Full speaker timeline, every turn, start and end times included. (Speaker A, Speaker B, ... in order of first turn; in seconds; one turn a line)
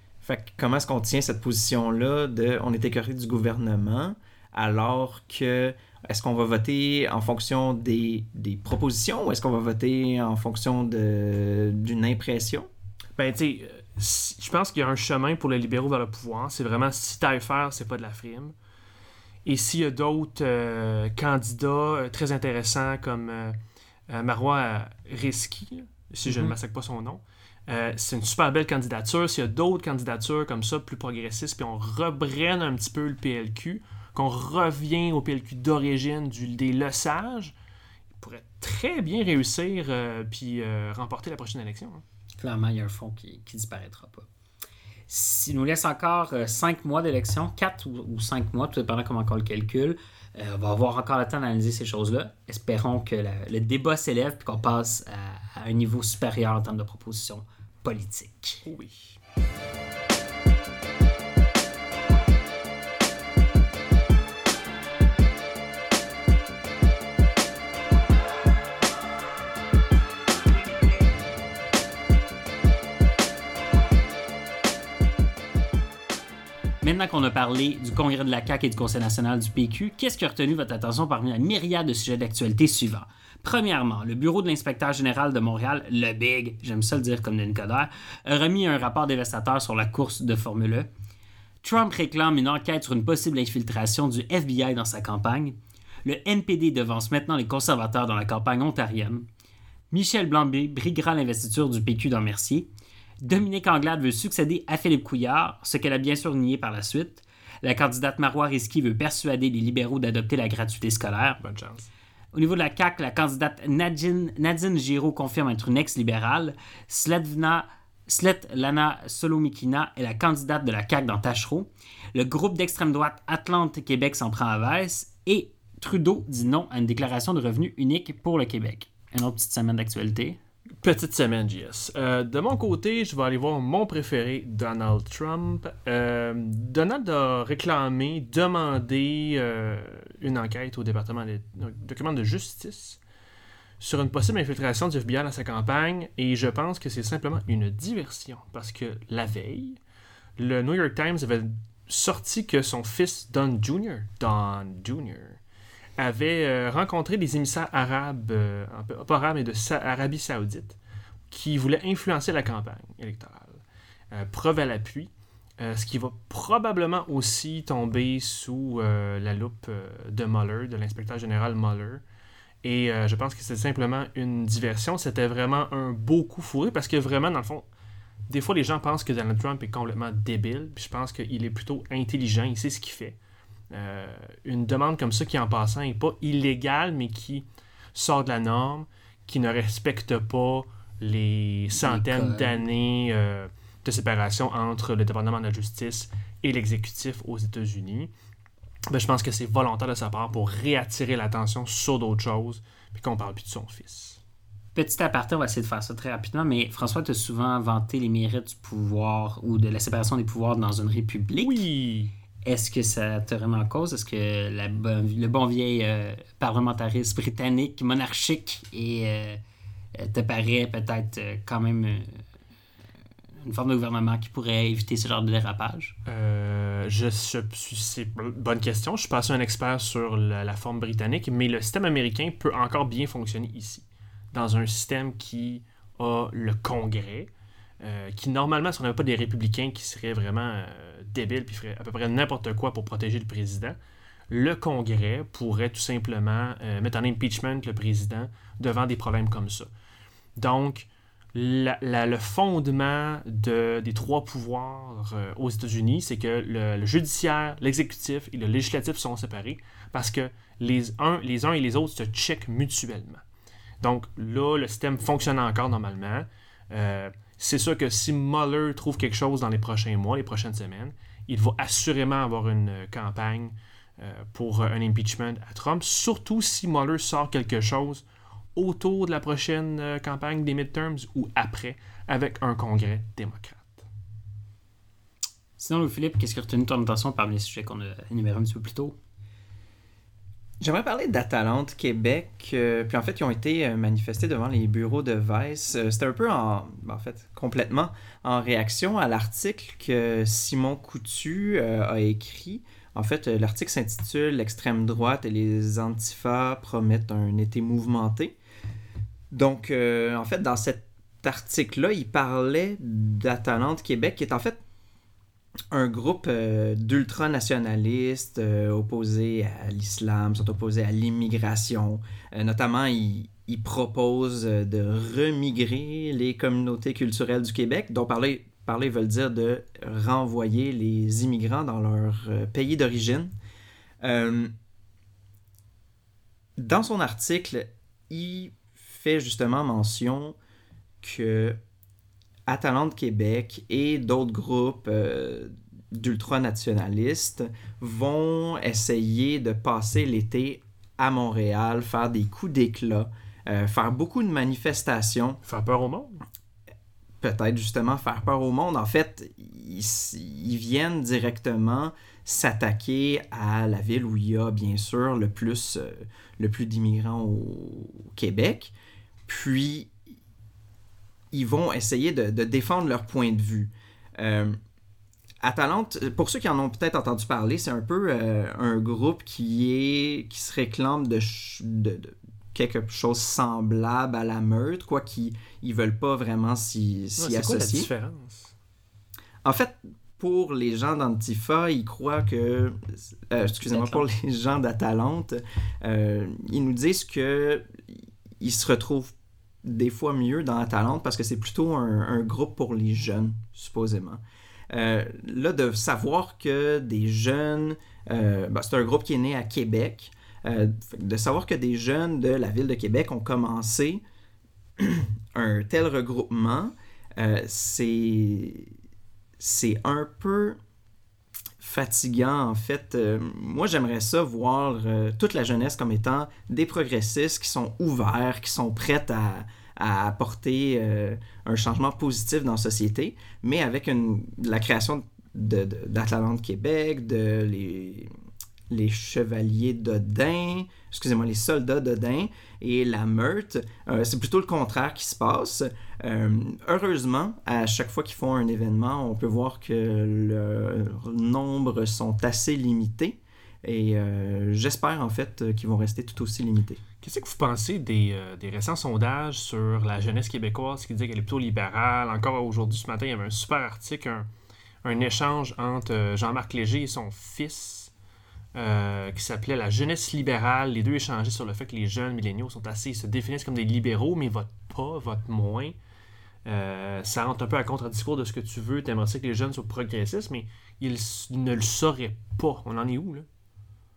Speaker A: 0.2-12.7
Speaker B: 13.2-18.5
Speaker B: 19.4-23.6
Speaker B: 24.1-37.5
Speaker C: 26.2-26.5
Speaker B: 38.2-42.0
Speaker C: 42.4-44.3
Speaker C: 45.1-58.6
Speaker B: 58.6-59.2
Speaker C: 76.8-90.9
Speaker C: 91.6-99.2
Speaker C: 99.9-102.7
Speaker C: 103.2-111.4
Speaker B: 111.4-111.9
Speaker C: 112.3-130.4
Speaker B: 130.8-143.0
Speaker B: 143.8-149.8
Speaker B: 150.4-155.4
Speaker B: 156.0-160.8
Speaker B: 161.3-172.0
Speaker B: 172.6-177.7
Speaker B: 178.3-183.2
Speaker B: 183.7-198.1
Speaker C: 191.7-192.6
Speaker B: 198.9-204.2
Speaker C: 204.7-211.6
Speaker B: 211.4-212.1
Speaker C: 212.4-219.4
Speaker C: 219.9-222.2
Speaker C: 223.4-225.9
Speaker B: 226.1-243.8
Speaker B: 244.3-249.7
Speaker B: 250.4-263.2
Speaker B: 263.8-278.0
Speaker B: 278.6-283.9
Speaker C: 285.6-288.9
Speaker A: 290.6-308.3
Speaker A: 309.3-314.6
Speaker A: 315.7-333.3
Speaker A: 334.0-334.5
Speaker A: 336.6-340.4
Speaker A: 341.0-341.6
Speaker A: 342.5-355.4
Speaker B: 355.4-356.2
Speaker A: 357.2-368.7
Speaker A: 369.3-369.9
Speaker A: 371.3-374.6
Speaker A: 375.4-387.9
Speaker B: 387.2-388.5
Speaker A: 389.4-399.1
Speaker C: 393.5-394.0
Speaker A: 399.6-414.0
Speaker A: 414.8-418.7
Speaker A: 419.4-420.6
Speaker A: 421.6-438.1
Speaker A: 438.7-456.8
Speaker B: 457.0-464.3
Speaker B: 464.8-467.9
Speaker B: 468.5-475.7
Speaker B: 476.4-483.2